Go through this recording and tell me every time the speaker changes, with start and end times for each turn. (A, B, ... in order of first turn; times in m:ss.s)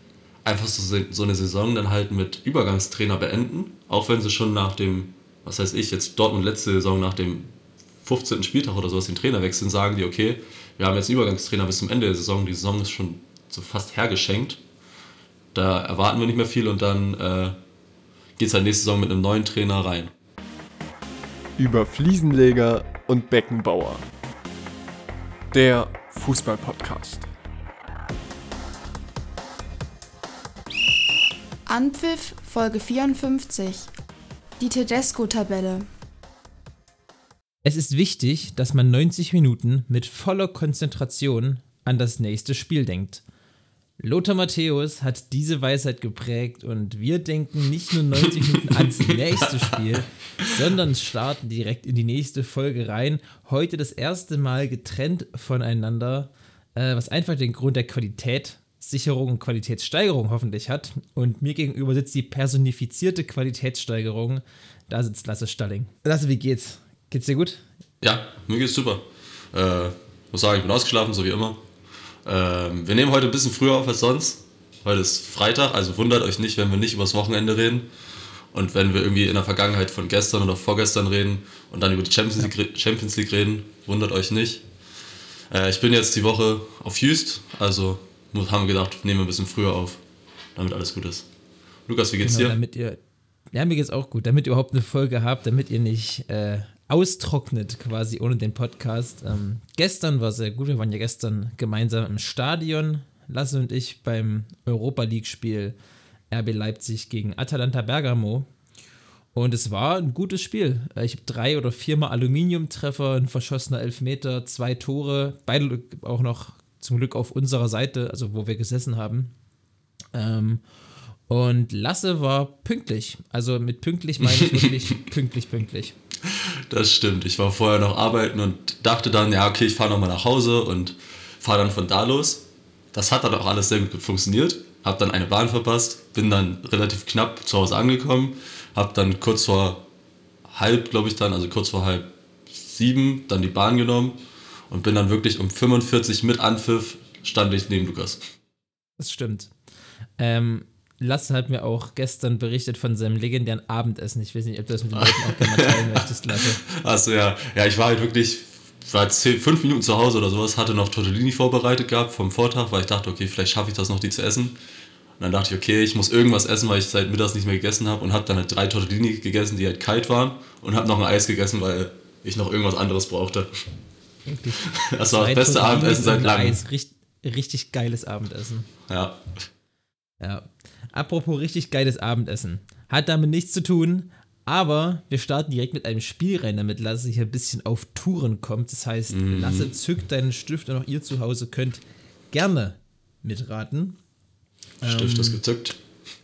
0:00.4-0:14.6 A
0:15.5-0:17.6 A
0:18.4-0:20.1 A
0:21.6-0:24.0 B
0:25.5-0:27.2 B
0:31.7-0:33.9 C
0:34.6-0:35.9 C
0:37.6-0:43.2 D
0:44.0-1:07.6 D
0:48.5-0:50.5 A
1:08.0-1:11.6 A
1:12.2-1:17.9 A
1:18.5-1:24.6 A
1:25.5-1:30.0 A
1:30.5-1:31.3 A
1:31.9-1:32.6 A
1:32.2-1:33.0 D
1:33.5-1:45.8 D
1:46.3-1:48.5 D
1:49.3-1:59.3 D
2:00.1-2:00.6 D
2:01.3-2:06.0 D
2:04.2-2:04.7 A
2:06.3-2:19.8 A
2:20.5-2:24.2 A
2:24.7-2:28.2 A
2:29.0-2:29.5 D
2:30.2-2:36.6 D
2:34.9-2:44.6 A
2:45.2-2:53.5 A
2:54.2-2:58.7 D
2:54.6-2:56.6 A
2:58.9-2:59.2 A
3:00.2-3:14.0 D
3:09.1-3:09.7 A
3:14.8-3:15.8 A
3:14.8-3:15.4 D